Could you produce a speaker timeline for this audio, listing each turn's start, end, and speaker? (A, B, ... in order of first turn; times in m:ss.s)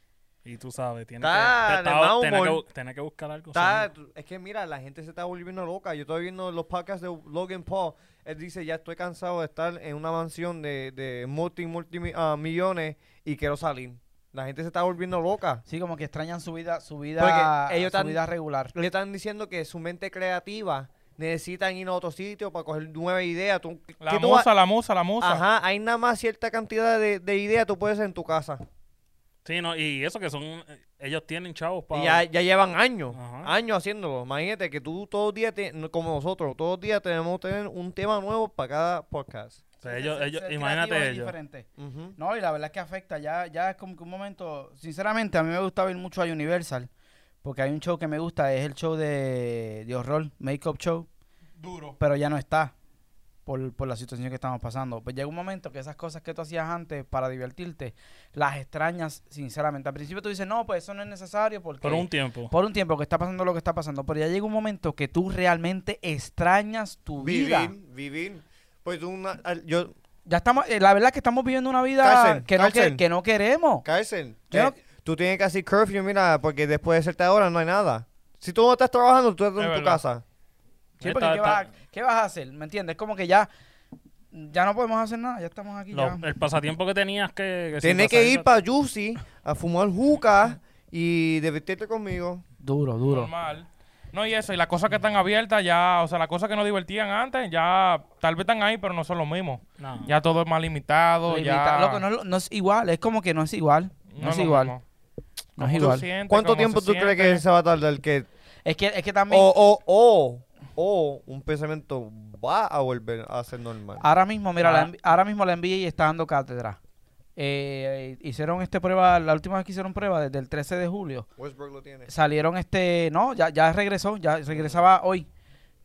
0:00.4-0:03.9 A
0:01.2-0:02.6 B
0:03.5-0:15.6 B
0:15.7-0:18.7 C
0:17.2-0:18.2 B
0:18.7-0:24.5 B
0:24.0-0:25.4 D
0:25.2-0:28.6 B
0:29.4-0:32.2 A
0:31.9-0:39.6 B
0:33.1-0:33.5 A
0:39.8-0:46.9 C
0:39.8-0:41.3 A
0:41.8-0:42.2 B
0:47.4-0:51.1 C
0:51.6-0:52.0 D
0:52.0-0:52.7 C
0:53.4-1:07.7 C
1:01.8-1:02.5 A
1:07.2-1:09.9 B
1:10.3-1:13.8 C
1:12.0-1:13.0 B
1:13.8-1:20.2 B
1:14.5-1:14.8 C
1:19.6-1:20.0 D
1:21.0-1:23.5 C
1:21.0-1:21.6 A
1:24.3-1:26.2 C
1:25.9-1:28.5 A
1:27.8-1:32.4 B
1:32.6-1:33.3 C
1:33.0-1:42.0 D
1:39.8-1:40.1 A
1:41.3-1:44.7 C
1:44.1-1:44.8 D
1:45.6-1:47.4 D
1:45.6-1:46.1 C
1:45.8-1:48.3 B
1:48.6-1:49.5 C
1:49.3-1:54.1 B
1:54.0-1:56.8 C
1:57.4-2:01.3 C
2:01.4-2:02.1 B
2:02.1-2:05.3 C